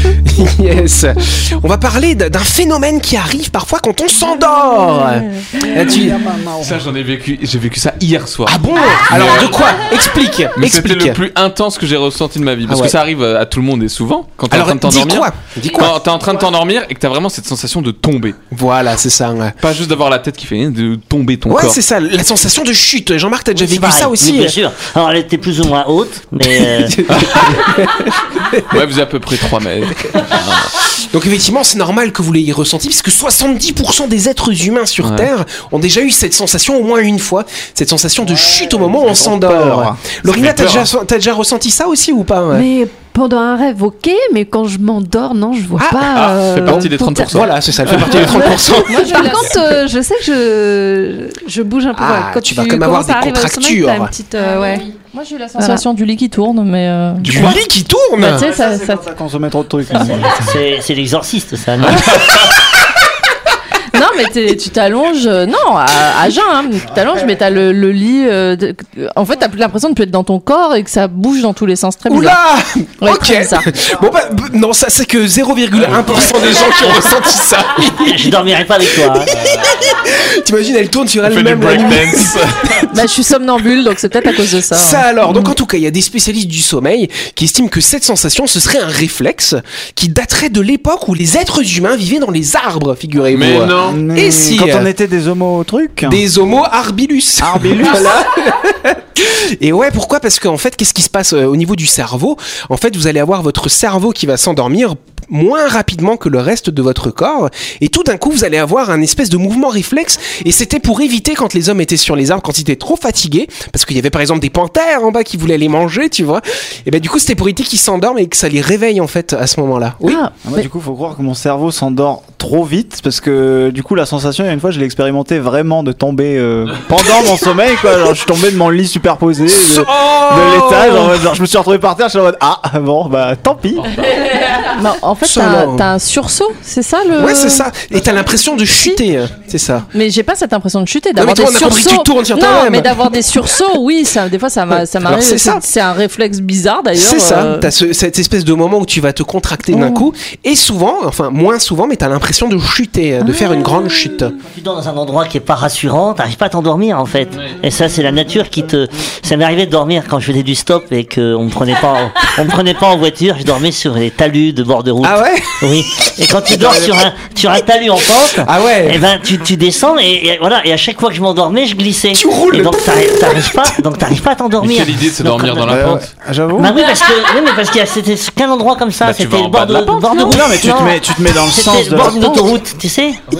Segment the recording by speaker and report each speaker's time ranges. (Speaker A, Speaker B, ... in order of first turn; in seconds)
Speaker A: 0.2-6.2, 8.4-11.2, 12.7-13.0, 14.5-16.1, 18.5-19.6, 21.5-24.6, 26.4-28.6, 31.0-42.7, 45.8-49.8, 51.9-54.2, 57.2-58.5, 72.1-78.4, 79.0-82.3, 84.7-94.9, 96.0-120.3, 129.5-131.2, 135.2-135.9, 137.2-139.9, 141.2-143.0, 144.7-145.7, 146.9-154.3, 165.0-165.5, 168.4-169.0, 172.1-173.8
Speaker B: 5.7-6.8, 38.2-40.0, 58.2-60.4, 93.6-96.2, 97.4-98.2, 120.4-133.9, 175.7-176.8, 180.2-182.5
Speaker C: 6.6-9.6, 10.6-18.4, 19.6-21.8, 27.1-27.4, 28.7-30.8, 35.0-35.3, 40.3-40.9, 46.1-48.5, 61.8-62.5, 75.9-76.2, 81.2-82.9, 93.3-94.0, 174.6-176.1, 179.0-180.4
Speaker D: 23.5-27.0, 59.9-62.1, 78.0-79.3, 154.4-175.8, 176.6-183.2
Speaker E: 42.5-54.9, 55.5-55.8, 120.0-120.7
Speaker F: 48.9-49.7, 54.3-57.6, 58.2-59.1, 63.9-72.4, 73.0-73.7, 82.9-85.6, 134.4-137.7, 138.6-139.0, 139.9-147.7, 149.7-150.1, 153.2-153.7